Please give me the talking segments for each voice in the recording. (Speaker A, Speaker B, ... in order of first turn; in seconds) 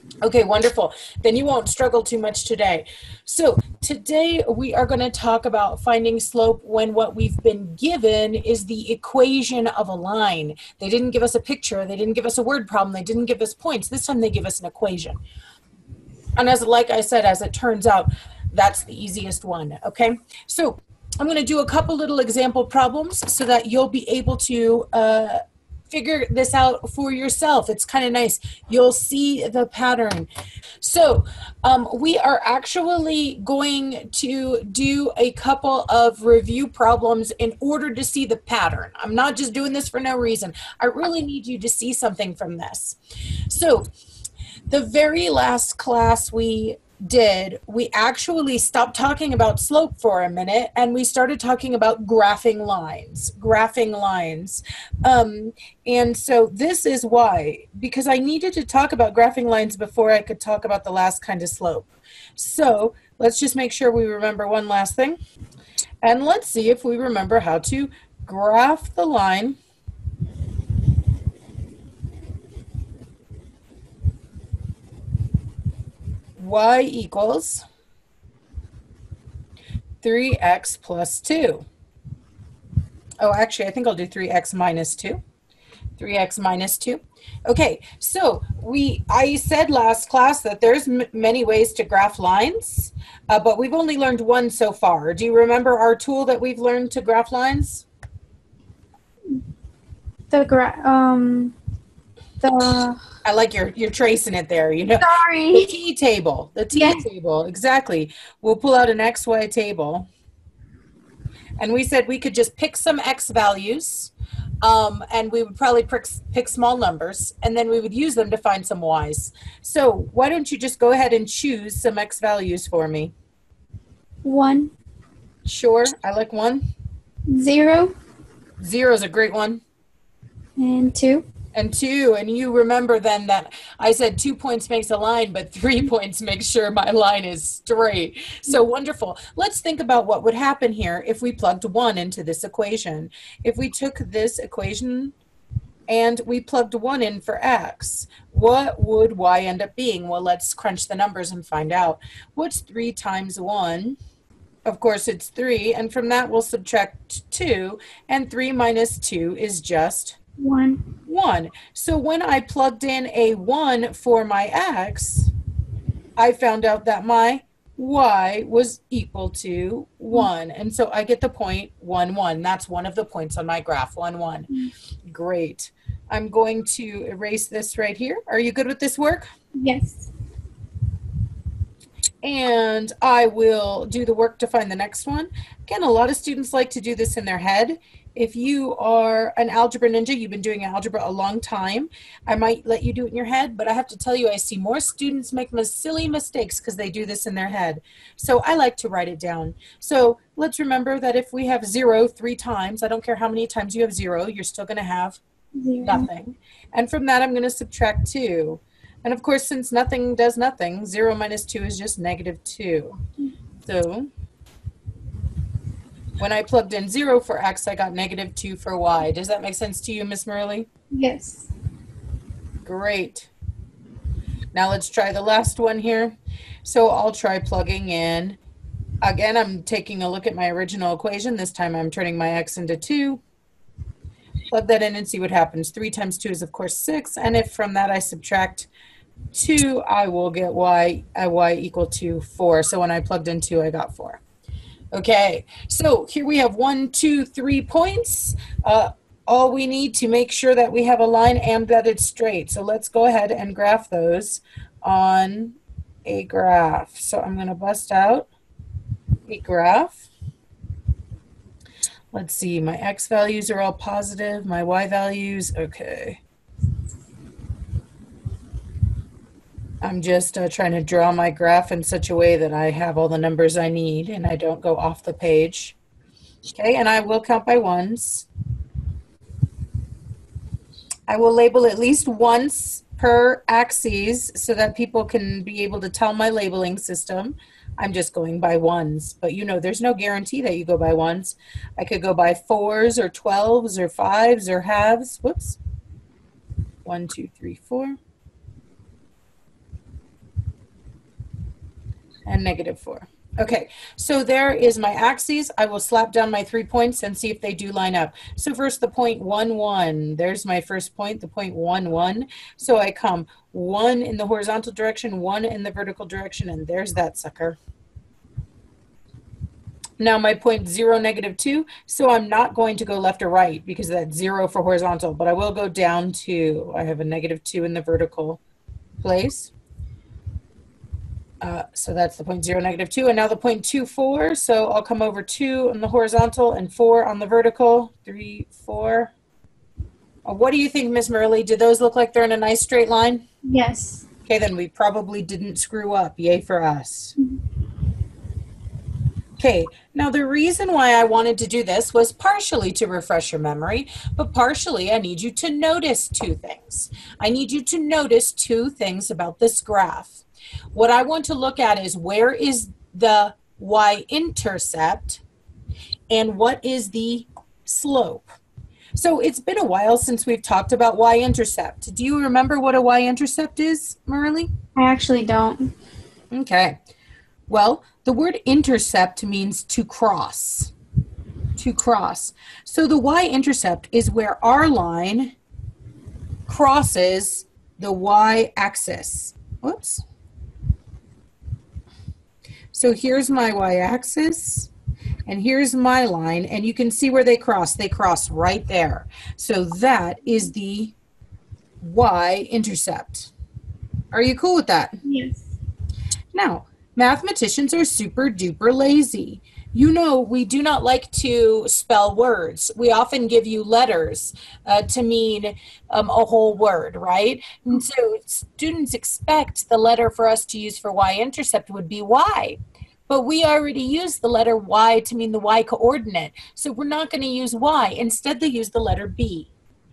Speaker A: 0.2-15.2, 16.4-30.3, 30.8-43.0, 43.5-43.9, 44.7-65.2, 66.0-69.6, 76.4-77.6, 80.0-81.7, 83.2-85.2, 86.0-97.8, 103.2-110.1, 111.6-123.1, 125.5-126.7, 128.6-129.6, 131.5-145.2, 145.9-154.0, 154.7-160.2, 161.1-165.3, 166.2-174.5, 175.1-179.3, 182.2-205.2, 205.8-213.0, 213.7-214.1, 216.2-220.7, 222.7-223.3, 224.5-228.4, 229.0-233.2, 234.5-238.7, 239.3-244.2, 244.9-258.3, 259.3-260.1, 262.1-266.2, 269.8-275.8, 276.5-278.3, 281.1-295.6, 296.9-298.0, 302.2-317.6, 320.0-328.4, 329.0-329.5, 331.4-339.1, 340.2-343.2, 344.2-347.1, 349.4-365.2, 366.1-368.3, 368.9-374.5, 376.3-376.8, 377.5-380.7, 381.6-385.4, 386.5-390.0, 392.7-394.7, 395.2-400.9, 401.8-403.3, 404.1-405.0, 406.3-429.5
Speaker B: 100.3-101.6, 102.4-103.0, 105.0-105.8, 106.7-107.0, 124.2-124.7, 127.3-128.0, 130.6-131.3, 160.4-160.9, 179.5-180.1, 205.5-206.1, 220.9-221.5, 343.4-344.0, 374.8-375.7, 405.0-405.5